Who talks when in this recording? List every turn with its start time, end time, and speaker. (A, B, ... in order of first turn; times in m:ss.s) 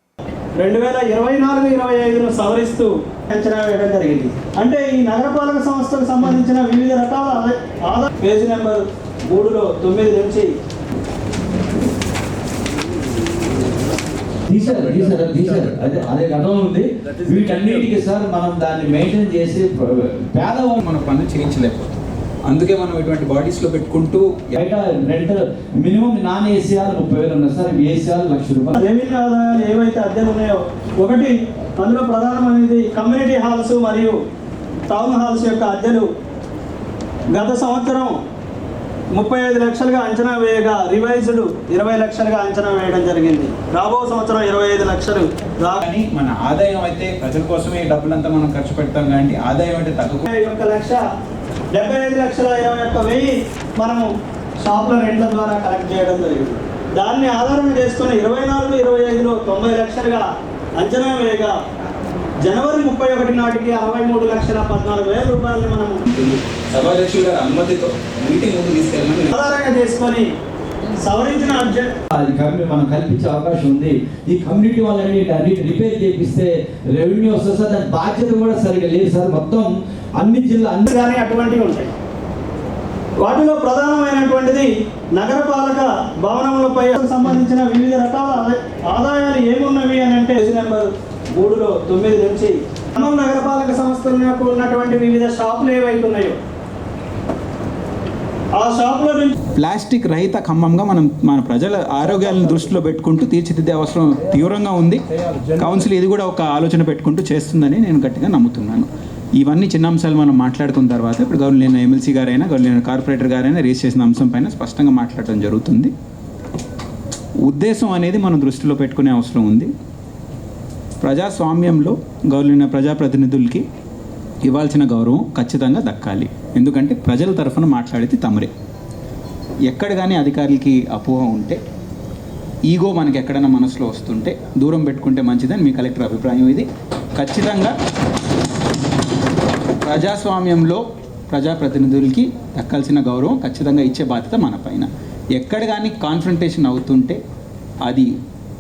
0:00.6-0:10.5 A
0:14.5-0:20.8 B
0:20.8-0:21.9 C
0:22.5-0:24.5 C
0:24.6-0:28.8 B
0:28.8-0:34.2 A
0:34.9-0:36.1 A
0:37.3-0:38.2 A
0:39.2-0:45.8 A
0:45.8-0:50.3 C
0:50.3-0:51.0 A
0:51.7-0:54.1 A
0:54.6-1:00.3 A
1:00.8-1:01.5 A
1:02.4-1:06.0 A
1:06.1-1:09.3 C
1:09.3-1:10.3 A
1:11.0-1:11.9 A
1:12.1-1:20.9 B
1:20.9-1:21.9 A
1:23.2-1:36.4 A
1:38.5-1:39.4 A
1:39.6-1:55.9 C
1:57.4-1:59.7 C
2:01.0-2:03.6 C
2:04.5-2:08.5 C
2:09.7-2:11.6 C
2:12.7-2:17.7 C
2:19.8-2:27.2 C